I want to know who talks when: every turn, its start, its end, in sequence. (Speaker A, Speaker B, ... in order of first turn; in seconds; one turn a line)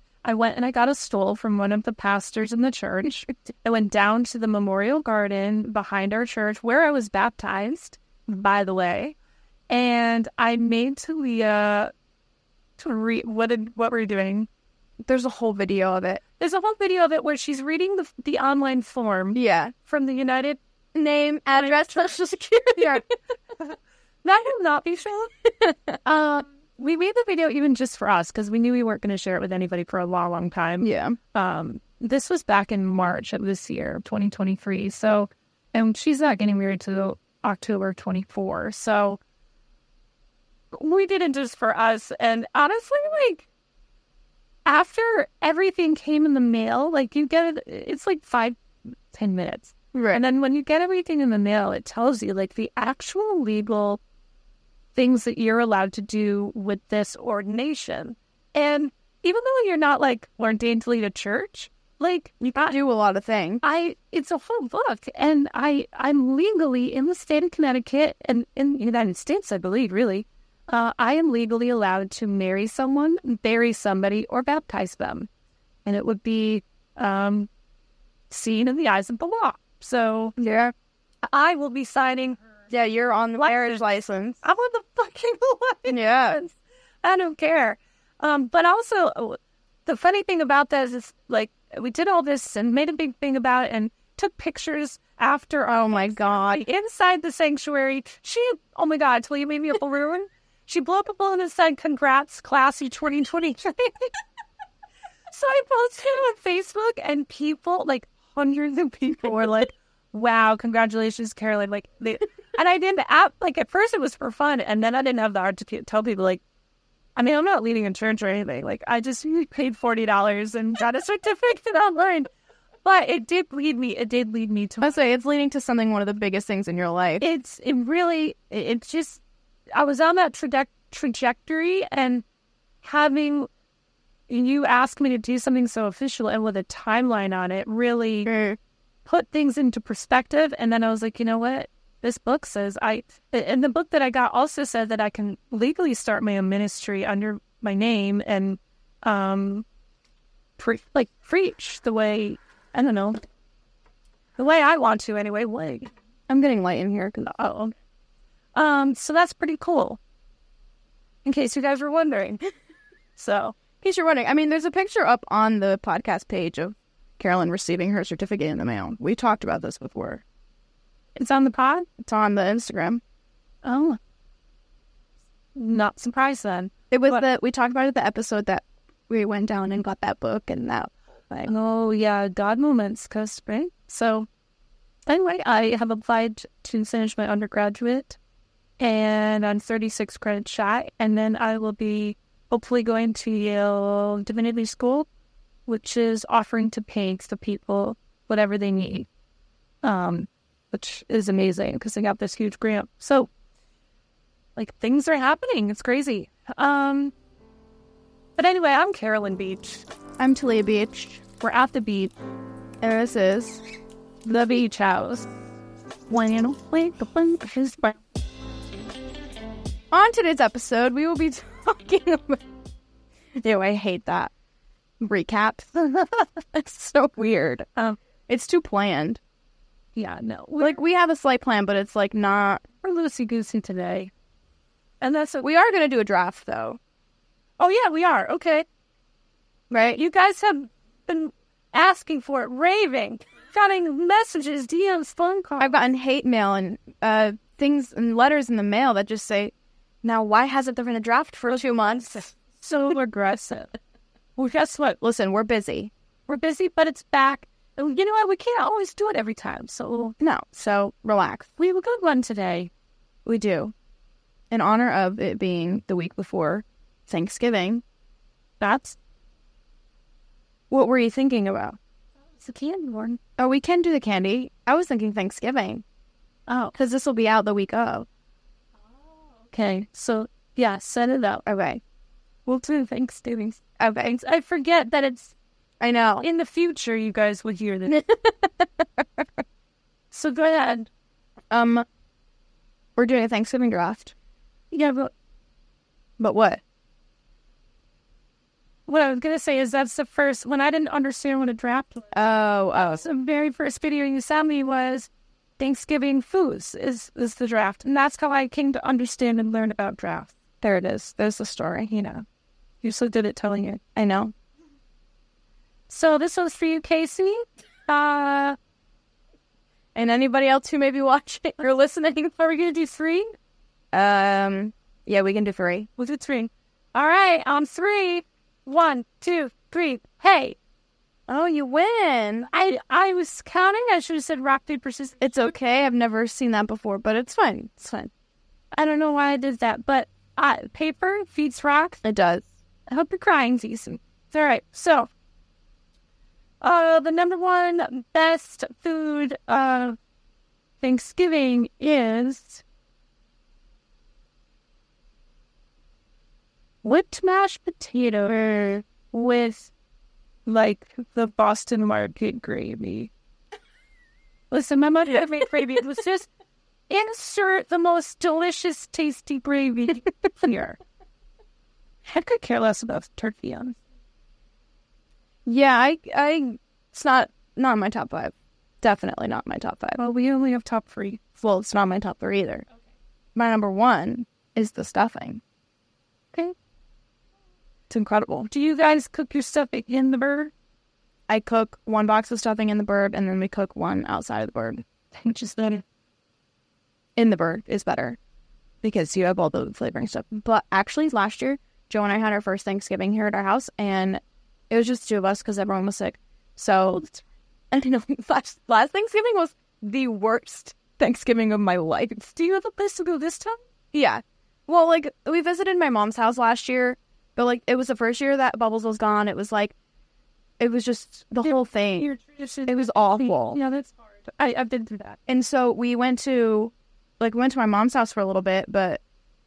Speaker A: 0.2-9.1
Speaker A: 9.7-11.9
Speaker A: 12.8-14.5
Speaker B: 15.0-16.2
Speaker A: 16.4-20.6
Speaker B: 19.3-19.7
Speaker B: 20.9-23.0
Speaker A: 21.6-22.1
Speaker A: 22.8-23.0
Speaker A: 23.6-25.3
Speaker B: 25.6-25.9
Speaker A: 26.0-39.2
Speaker B: 30.8-31.2
Speaker A: 40.7-43.5
Speaker A: 44.6-48.6
Speaker A: 49.1-54.0
Speaker B: 49.9-50.2
Speaker A: 54.9-62.7
Speaker B: 62.4-63.6
Speaker A: 63.6-75.3
Speaker A: 75.8-77.5
Speaker A: 78.3-80.3
Speaker B: 80.4-80.7
Speaker A: 81.2-82.4
Speaker B: 82.7-84.4
Speaker A: 83.4-83.8
Speaker A: 84.4-104.2
Speaker B: 85.9-86.4
Speaker B: 95.7-96.6
Speaker A: 105.3-116.4
Speaker A: 117.2-122.3
Speaker A: 122.8-125.0
Speaker B: 124.8-127.2
Speaker A: 127.2-129.2
Speaker A: 129.7-132.2
Speaker A: 132.8-133.5
Speaker A: 134.3-138.3
Speaker B: 138.3-138.6
Speaker A: 139.0-149.6
Speaker A: 150.6-153.2
Speaker A: 154.4-155.9
Speaker B: 156.3-157.3
Speaker A: 157.2-157.7
Speaker A: 158.5-160.0
Speaker A: 161.2-162.5
Speaker A: 163.2-163.5
Speaker B: 163.8-170.2
Speaker A: 171.2-171.9
Speaker B: 172.0-173.0
Speaker A: 173.6-174.0
Speaker A: 175.5-177.2
Speaker B: 176.9-181.5
Speaker A: 181.4-184.3
Speaker A: 185.1-188.2
Speaker A: 188.8-195.1
Speaker A: 195.7-199.1
Speaker A: 199.8-203.3
Speaker A: 204.6-207.1
Speaker A: 208.4-209.8
Speaker B: 210.2-211.2
Speaker A: 211.4-212.1
Speaker B: 212.8-213.6
Speaker A: 214.2-215.3
Speaker A: 216.1-218.0
Speaker B: 219.9-222.4
Speaker B: 223.4-224.3
Speaker B: 225.0-227.7
Speaker B: 228.3-229.2
Speaker A: 229.9-230.8
Speaker B: 230.6-232.6
Speaker A: 232.8-234.1
Speaker A: 235.0-235.5
Speaker B: 235.4-236.8
Speaker A: 237.6-238.7
Speaker B: 239.7-240.0
Speaker A: 239.9-245.7
Speaker B: 245.6-252.3
Speaker A: 252.5-253.8
Speaker A: 254.4-255.0
Speaker B: 255.0-255.9
Speaker A: 256.3-260.1
Speaker B: 260.2-261.5
Speaker A: 261.6-262.7
Speaker B: 263.2-263.7
Speaker B: 264.5-267.8
Speaker A: 268.6-269.0
Speaker B: 270.7-271.8
Speaker A: 272.4-273.2
Speaker B: 273.4-275.8
Speaker A: 276.5-276.7
Speaker B: 276.7-278.1
Speaker A: 279.5-281.4
Speaker B: 281.4-281.8
Speaker A: 282.4-285.3
Speaker B: 283.8-284.1
Speaker B: 285.8-286.2
Speaker A: 286.2-288.0
Speaker B: 287.9-289.2
Speaker A: 290.1-290.9
Speaker B: 291.5-291.9
Speaker B: 293.0-294.1
Speaker A: 294.7-295.1
Speaker B: 296.2-296.6
Speaker A: 298.9-302.1
Speaker B: 302.1-303.0
Speaker A: 302.9-310.4
Speaker B: 310.6-311.9
Speaker A: 311.9-312.2
Speaker A: 312.8-313.8
Speaker B: 313.9-314.3
Speaker A: 315.9-318.6
Speaker B: 319.9-322.4
Speaker A: 322.4-323.3
Speaker B: 323.9-325.9
Speaker A: 326.0-330.6
Speaker B: 331.3-332.5
Speaker A: 332.5-335.4
Speaker B: 335.2-338.1
Speaker A: 338.7-342.0
Speaker B: 342.0-342.5
Speaker A: 342.9-345.1
Speaker A: 346.6-350.0
Speaker A: 350.8-352.6
Speaker A: 356.8-359.7
Speaker A: 360.4-363.1
Speaker A: 364.5-366.3
Speaker A: 366.9-370.8
Speaker A: 372.0-373.8
Speaker B: 375.4-380.0
Speaker A: 380.0-381.2
Speaker B: 381.4-382.6
Speaker B: 383.3-385.4
Speaker B: 387.9-388.5
Speaker A: 388.4-390.5
Speaker B: 391.3-394.8
Speaker A: 395.1-395.8
Speaker B: 397.1-398.2
Speaker B: 398.8-412.3
Speaker A: 412.3-413.6
Speaker B: 413.9-419.7
Speaker B: 420.6-422.1
Speaker A: 421.4-425.2
Speaker B: 422.7-423.6
Speaker B: 425.3-429.0